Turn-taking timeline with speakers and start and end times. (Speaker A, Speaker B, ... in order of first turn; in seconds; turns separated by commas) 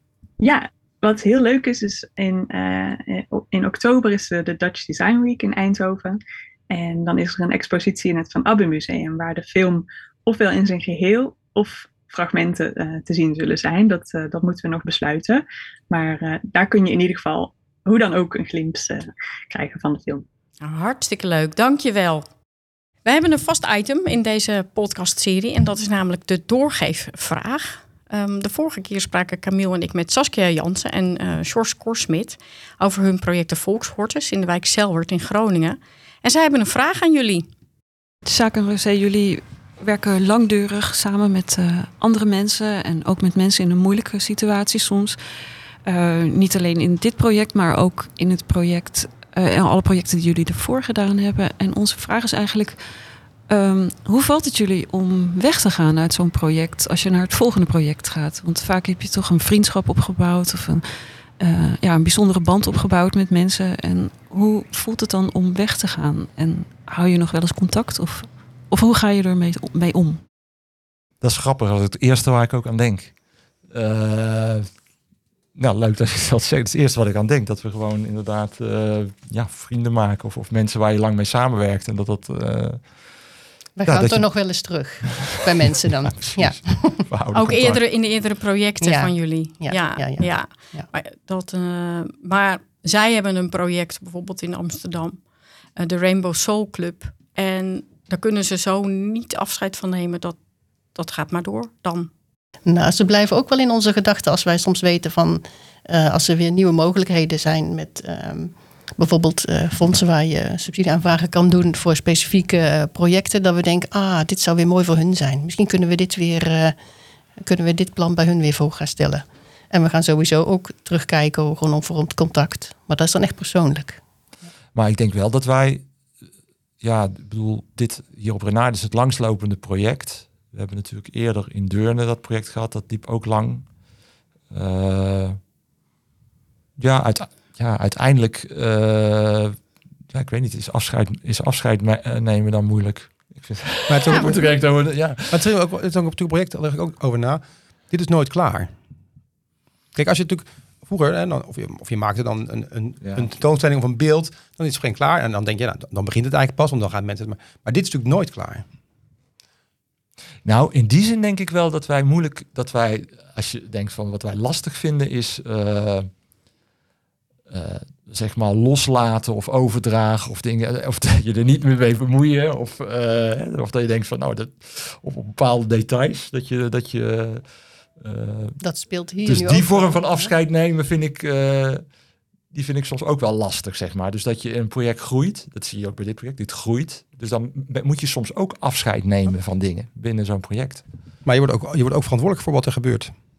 Speaker A: 0.4-20.2, Speaker B: 20.6-22.2, Speaker B: 23.0-37.5, Speaker C: 38.2-45.2, Speaker C: 45.8-52.8, Speaker C: 53.5-60.9, Speaker C: 61.4-70.2, Speaker D: 71.2-73.1, Speaker D: 73.7-74.7, Speaker D: 75.5-82.9, Speaker E: 83.8-87.0, Speaker D: 83.8-84.2, Speaker D: 85.0-85.4, Speaker D: 86.1-87.8, Speaker B: 87.3-95.2, Speaker E: 88.8-90.9, Speaker B: 95.8-100.4, Speaker B: 100.9-102.1, Speaker E: 102.7-116.8, Speaker E: 117.4-124.0, Speaker D: 124.7-125.8, Speaker D: 126.8-133.7, Speaker D: 134.5-135.4, Speaker D: 136.8-139.6, Speaker D: 140.1-145.4, Speaker F: 143.9-144.6, Speaker F: 145.3-148.7, Speaker F: 149.9-158.6, Speaker D: 153.0-153.3, Speaker D: 160.4-166.1, Speaker D: 167.5-177.4, Speaker D: 178.0-178.6, Speaker E: 178.6-180.3, Speaker D: 179.2-181.8, Speaker D: 182.5-190.8, Speaker F: 191.2-193.1